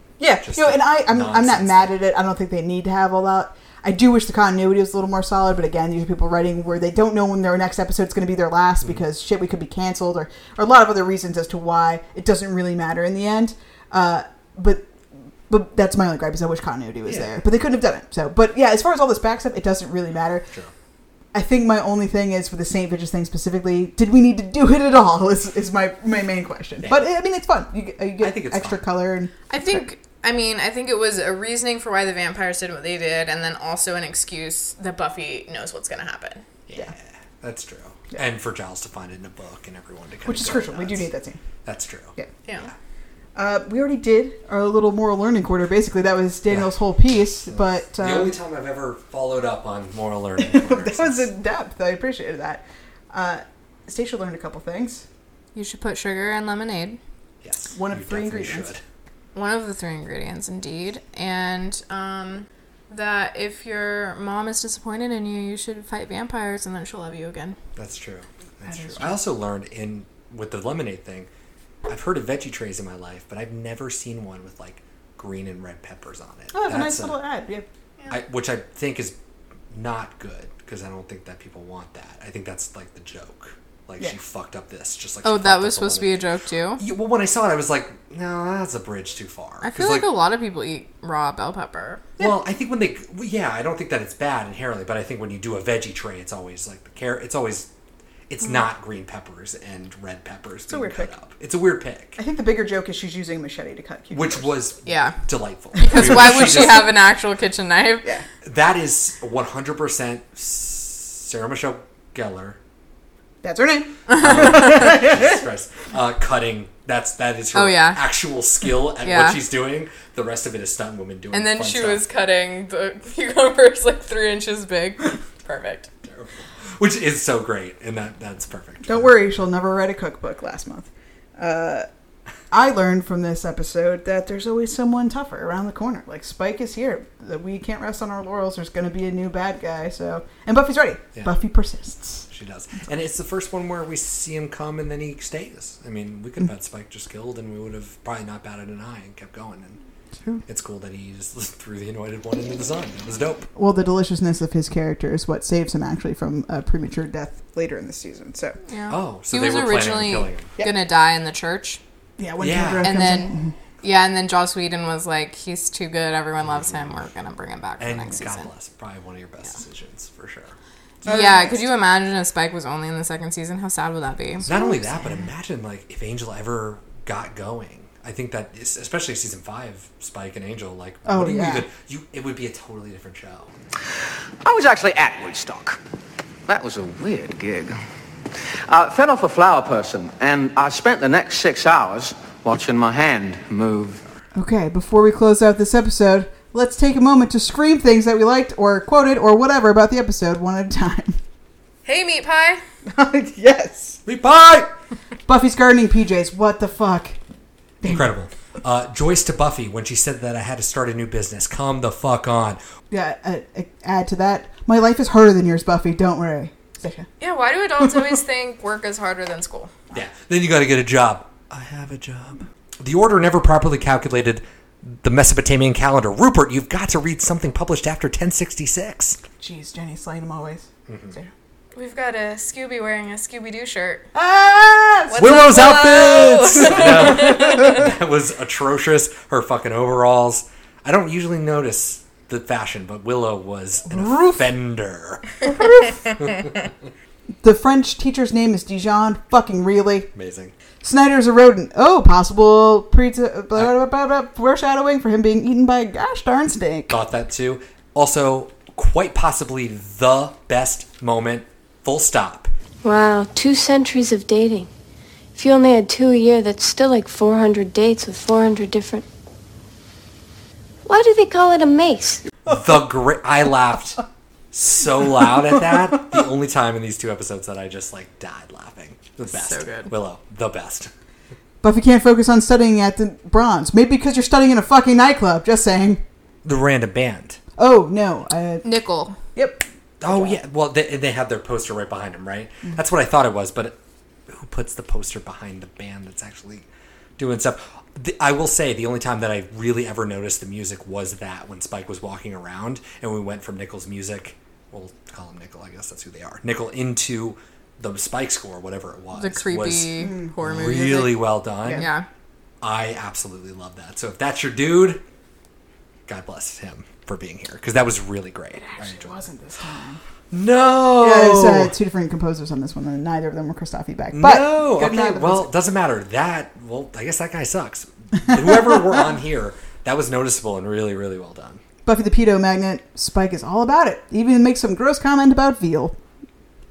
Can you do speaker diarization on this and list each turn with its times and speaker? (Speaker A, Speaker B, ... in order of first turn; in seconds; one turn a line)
Speaker A: 0.2-14.9
Speaker B: 0.4-1.9
Speaker A: 15.5-20.5
Speaker B: 17.1-17.4
Speaker A: 21.3-29.8
Speaker B: 28.2-28.8
Speaker C: 29.5-36.4
Speaker B: 36.7-41.1
Speaker A: 40.2-41.4
Speaker B: 41.6-42.7
Speaker A: 43.3-48.3
Speaker B: 46.5-46.7
Speaker B: 47.5-51.3
Speaker A: 50.4-55.0
Speaker C: 55.5-57.0
Speaker B: 57.4-58.8
Speaker A: 57.8-58.7
Speaker C: 59.3-67.6
Speaker B: 67.8-71.3
Speaker A: 68.7-69.2
Speaker B: 71.9-77.2
Speaker A: 76.5-77.7
Speaker B: 78.1-79.2
Speaker B: 79.7-86.2
Speaker C: 85.2-86.8
Speaker B: 86.8-90.1
Speaker C: 89.6-92.0
Speaker B: 92.2-97.7
Speaker B: 98.3-102.2
Speaker A: 100.7-101.1
Speaker A: 102.2-104.5
Speaker B: 104.1-106.9
Speaker C: 104.8-105.2
Speaker C: 105.8-108.1
Speaker A: 105.8-106.7
Speaker B: 108.4-112.6
Speaker A: 113.4-115.4
Speaker C: 114.1-114.8
Speaker B: 114.2-122.0
Speaker C: 117.5-118.0
Speaker C: 119.0-119.4
Speaker C: 121.3-125.9
Speaker B: 126.0-129.1
Speaker A: 128.8-131.9
Speaker A: 132.5-142.3
Speaker B: 142.3-149.8
Speaker B: 150.4-153.5
Speaker A: 153.5-158.6
Speaker C: 158.6-161.8
Speaker B: 158.9-160.5
Speaker A: 162.2-163.5
Speaker B: 162.4-162.9
Speaker C: 162.8-168.5
Speaker B: 166.4-167.1
Speaker B: 167.8-171.2
Speaker A: 171.0-171.6
Speaker C: 171.0-174.4
Speaker A: 174.4-175.2
Speaker B: 174.4-183.5
Speaker A: 181.1-181.7
Speaker D: 184.4-185.8
Speaker D: 186.5-187.8
Speaker D: 188.7-194.0
Speaker A: 194.3-201.2
Speaker C: 201.8-202.6
Speaker A: 202.8-204.0
Speaker B: 204.1-204.7
Speaker A: 205.3-207.2
Speaker A: 207.8-208.1
Speaker B: 207.8-212.6
Speaker A: 212.9-217.1
Speaker C: 217.2-219.7
Speaker B: 219.9-229.2
Speaker A: 229.4-231.3
Speaker B: 230.9-231.2
Speaker C: 231.7-234.1
Speaker A: 234.1-237.4
Speaker C: 235.1-237.7
Speaker B: 235.2-245.3
Speaker A: 243.9-244.5
Speaker A: 245.4-246.0
Speaker A: 247.4-250.1
Speaker B: 250.1-250.5
Speaker A: 250.8-256.9
Speaker B: 256.9-262.5
Speaker E: 262.8-264.7
Speaker E: 265.4-269.0
Speaker E: 270.9-272.2
Speaker B: 272.4-280.9
Speaker C: 279.3-279.9
Speaker A: 281.6-286.0
Speaker B: 286.4-287.4
Speaker A: 287.6-288.8
Speaker C: 288.6-289.2
Speaker A: 289.3-290.4
Speaker B: 290.0-293.8
Speaker B: 294.3-296.6
Speaker B: 297.2-311.9
Speaker C: 309.1-312.1
Speaker A: 310.0-310.3
Speaker A: 311.6-311.9
Speaker B: 312.6-315.0
Speaker B: 316.1-319.1
Speaker A: 318.5-320.0
Speaker B: 320.3-321.7
Speaker A: 321.0-325.5
Speaker B: 324.1-331.6
Speaker A: 328.5-328.8
Speaker A: 331.8-336.0